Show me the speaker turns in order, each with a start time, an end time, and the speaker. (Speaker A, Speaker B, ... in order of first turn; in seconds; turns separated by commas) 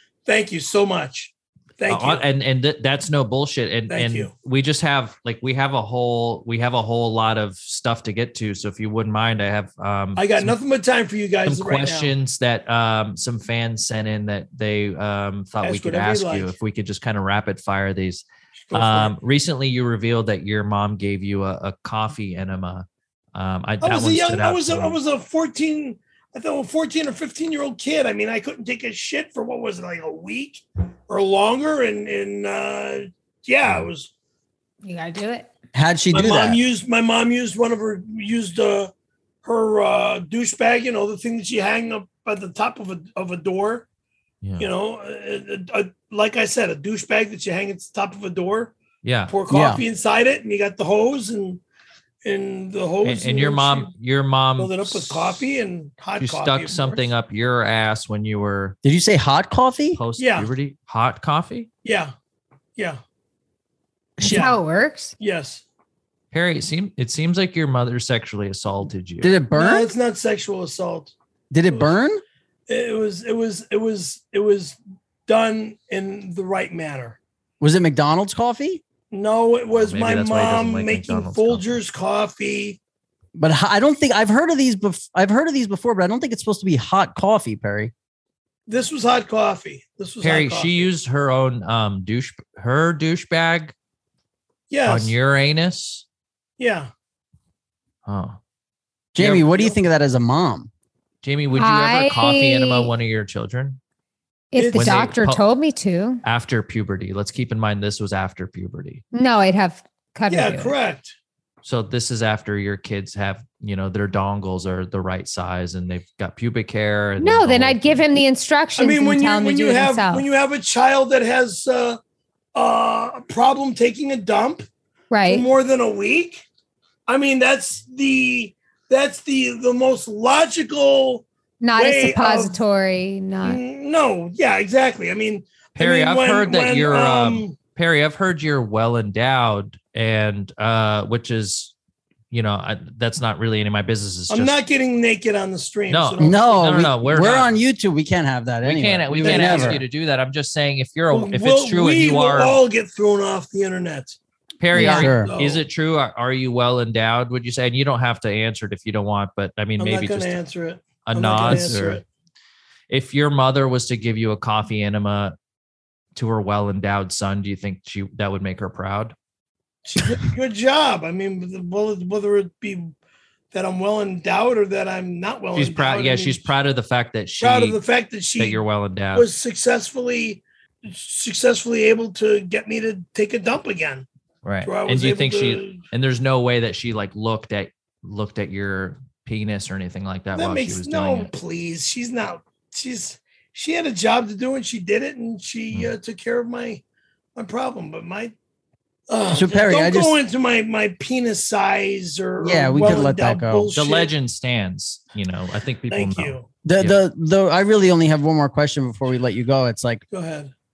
Speaker A: 0.3-2.2, Speaker B: 1.9-10.6, Speaker A: 3.9-4.3, Speaker A: 10.2-12.1, Speaker B: 11.4-25.0, Speaker A: 15.6-16.5, Speaker A: 18.7-19.1, Speaker A: 23.8-34.1, Speaker B: 33.6-33.9, Speaker C: 34.8-35.5, Speaker D: 35.7-36.6, Speaker A: 36.1-38.9, Speaker A: 39.4-43.9, Speaker B: 44.4-44.7, Speaker A: 44.6-48.7, Speaker B: 49.0-49.3, Speaker A: 49.3-51.6, Speaker D: 49.5-49.8, Speaker A: 52.2-53.9, Speaker B: 53.0-55.4, Speaker A: 54.6-57.0, Speaker B: 56.2-58.8, Speaker D: 58.8-60.0, Speaker B: 59.9-61.7, Speaker A: 60.2-60.5, Speaker A: 61.8-62.1, Speaker A: 64.2-64.6, Speaker C: 64.2-65.2, Speaker A: 65.2-65.6, Speaker B: 66.3-69.3, Speaker D: 69.2-69.9, Speaker A: 69.5-71.1, Speaker D: 71.5-72.2, Speaker A: 72.7-77.2, Speaker D: 77.6-78.8, Speaker A: 79.1-82.8, Speaker B: 79.7-81.7, Speaker D: 83.3-87.9, Speaker A: 88.7-90.9, Speaker B: 90.2-93.8, Speaker A: 94.7-95.1, Speaker B: 94.9-96.0, Speaker A: 96.6-96.9, Speaker B: 98.1-98.4, Speaker D: 99.2-100.7, Speaker B: 99.2-99.5, Speaker A: 99.4-99.8, Speaker B: 101.2-103.8, Speaker C: 101.6-102.9, Speaker C: 104.5-106.2, Speaker A: 104.6-105.1, Speaker B: 104.8-105.4, Speaker B: 106.2-109.0, Speaker C: 109.1-110.7, Speaker A: 110.3-111.2, Speaker B: 111.6-118.0, Speaker C: 117.2-120.3, Speaker A: 118.8-122.0, Speaker A: 122.5-124.7, Speaker C: 125.1-125.5, Speaker A: 125.3-126.4, Speaker A: 127.1-132.6, Speaker C: 131.6-133.6, Speaker A: 133.4-137.6, Speaker B: 135.8-141.7, Speaker B: 142.3-144.6, Speaker A: 144.3-146.3, Speaker B: 145.9-147.6, Speaker D: 146.2-149.8, Speaker B: 148.6-152.6, Speaker A: 149.1-149.8, Speaker A: 151.1-154.2, Speaker B: 154.6-160.4, Speaker D: 154.7-155.3, Speaker C: 154.8-155.1, Speaker A: 155.0-155.6, Speaker A: 159.8-162.0, Speaker B: 161.1-162.0, Speaker D: 161.5-161.8, Speaker B: 162.9-165.4, Speaker B: 166.2-169.2, Speaker A: 169.8-172.9, Speaker A: 173.5-176.5, Speaker B: 175.6-177.8, Speaker A: 177.4-178.6, Speaker B: 178.4-179.3, Speaker A: 179.1-184.1, Speaker B: 184.4-191.3, Speaker A: 184.6-185.8, Speaker A: 190.3-196.8, Speaker A: 197.3-198.3, Speaker A: 199.1-204.1, Speaker D: 199.3-200.2, Speaker D: 202.4-203.7, Speaker B: 203.7-207.0, Speaker A: 205.9-206.5, Speaker D: 206.7-210.0, Speaker A: 210.1-210.5